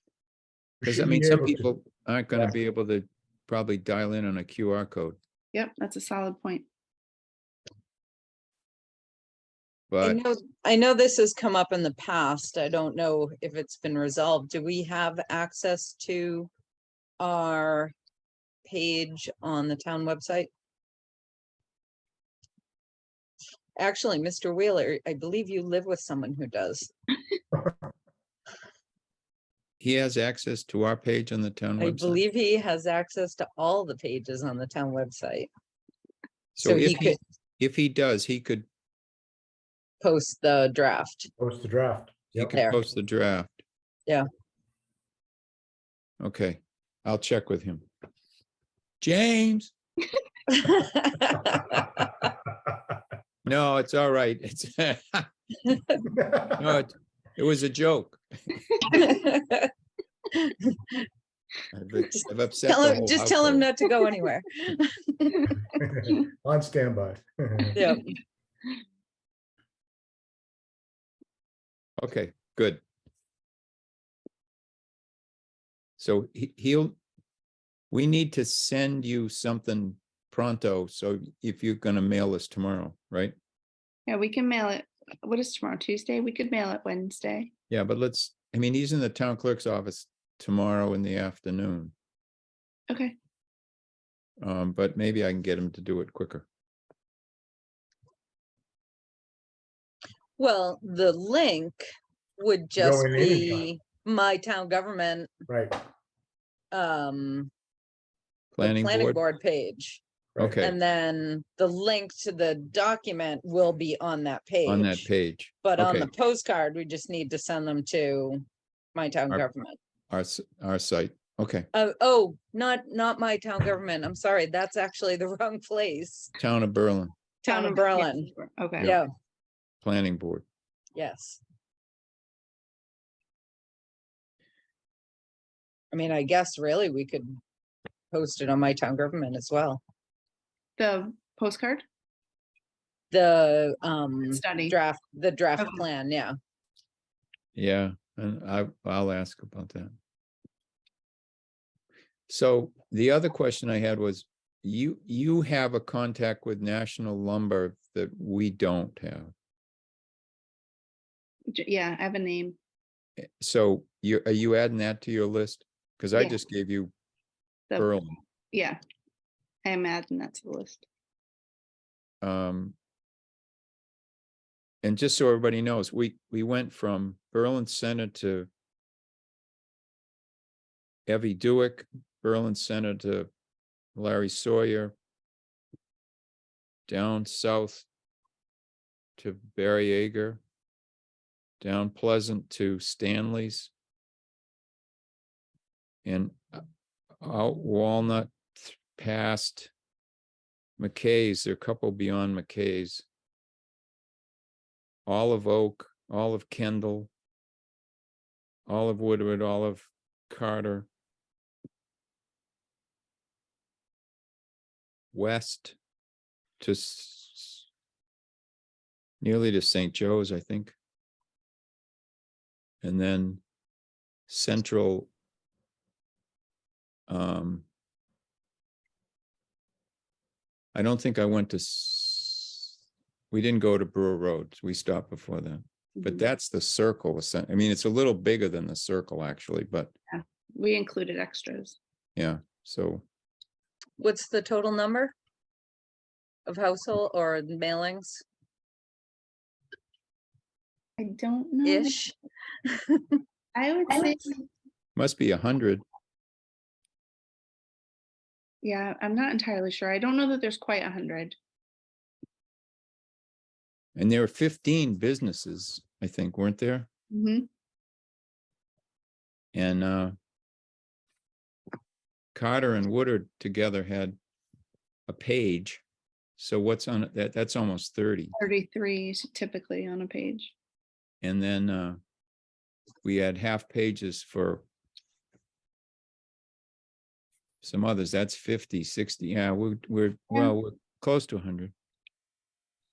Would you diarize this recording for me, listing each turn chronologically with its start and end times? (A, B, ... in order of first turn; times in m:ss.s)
0:00.8-0:01.7 A
0:00.8-0:05.2 B
0:05.5-0:06.6 C
0:09.9-0:10.2 B
0:10.0-0:16.5 D
0:17.2-0:17.9 D
0:18.6-0:20.5 D
0:23.8-0:26.9 D
0:29.8-0:32.2 B
0:31.8-0:35.5 D
0:36.6-0:38.6 B
0:36.6-0:37.2 D
0:40.0-0:41.3 D
0:41.4-0:42.5 A
0:42.4-0:43.6 B
0:42.5-0:42.8 D
0:46.2-0:47.8 B
0:49.0-0:49.7 B
0:50.5-0:52.3 D
0:53.4-0:55.3 B
0:55.7-0:56.0 D
0:56.0-0:56.6 A
0:56.6-0:58.6 B
0:58.8-0:59.1 C
0:58.9-0:59.7 D
1:00.3-1:01.0 D
1:01.7-1:03.7 B
1:02.1-1:05.5 D
1:05.8-1:07.8 A
1:07.7-1:08.1 D
1:12.0-1:12.8 B
1:16.0-1:17.0 B
1:17.9-1:23.4 B
1:24.1-1:27.5 C
1:27.7-1:31.9 B
1:32.9-1:33.1 C
1:34.4-1:36.4 B
1:40.4-1:41.9 D
1:42.4-1:45.3 D
1:42.8-1:43.6 A
1:45.5-1:45.8 A
1:46.7-1:47.5 D
1:48.5-1:49.2 B
1:48.6-1:50.0 D
1:50.3-1:50.6 A
1:50.4-1:50.8 B
1:50.6-1:55.1 D
1:54.6-1:56.1 B
1:55.6-1:59.8 D
2:00.1-2:01.7 B
2:01.7-2:06.3 D
2:06.4-2:07.1 B
2:07.4-2:09.1 D
2:07.4-2:09.0 C
2:09.8-2:10.4 B
2:11.0-2:11.4 D
2:15.9-2:17.4 D
2:18.1-2:19.8 D
2:20.8-2:21.8 C
2:23.1-2:26.4 D
2:24.3-2:24.8 C
2:27.5-2:29.9 B
2:32.3-2:39.3 B
2:41.5-2:42.6 C
2:43.4-2:46.9 B
2:47.8-2:48.2 B
2:48.5-2:48.8 C
2:49.6-2:50.8 C
2:52.2-2:52.7 B
2:54.8-2:58.5 B
3:01.1-3:03.3 B
3:03.9-3:04.9 B
3:06.9-3:07.8 B
3:09.2-3:10.4 B
3:11.6-3:13.7 B
3:16.0-3:16.6 B
3:17.2-3:19.7 B
3:20.8-3:23.0 B
3:25.1-3:27.1 B
3:28.7-3:30.9 B
3:35.1-3:35.8 B
3:36.6-3:37.6 B
3:39.2-3:40.8 B
3:42.8-3:43.4 B
3:44.3-3:45.1 B
3:47.1-3:47.6 B
3:50.7-3:52.7 B
3:53.3-3:59.9 B
4:00.1-4:01.8 C
4:02.2-4:03.0 B
4:04.0-4:05.1 D
4:06.4-4:08.2 D
4:11.0-4:12.0 C
4:11.6-4:12.1 D
4:12.6-4:13.2 D
4:13.5-4:14.3 C
4:15.0-4:15.8 B
4:18.6-4:21.4 C
4:24.0-4:26.9 B
4:27.1-4:27.5 C
4:29.5-4:30.1 B
4:32.3-4:34.2 B
4:35.1-4:35.8 B
4:36.4-4:38.3 B
4:38.3-4:40.5 C
4:41.2-4:42.0 B
4:43.0-4:44.6 B
4:47.6-4:51.7 B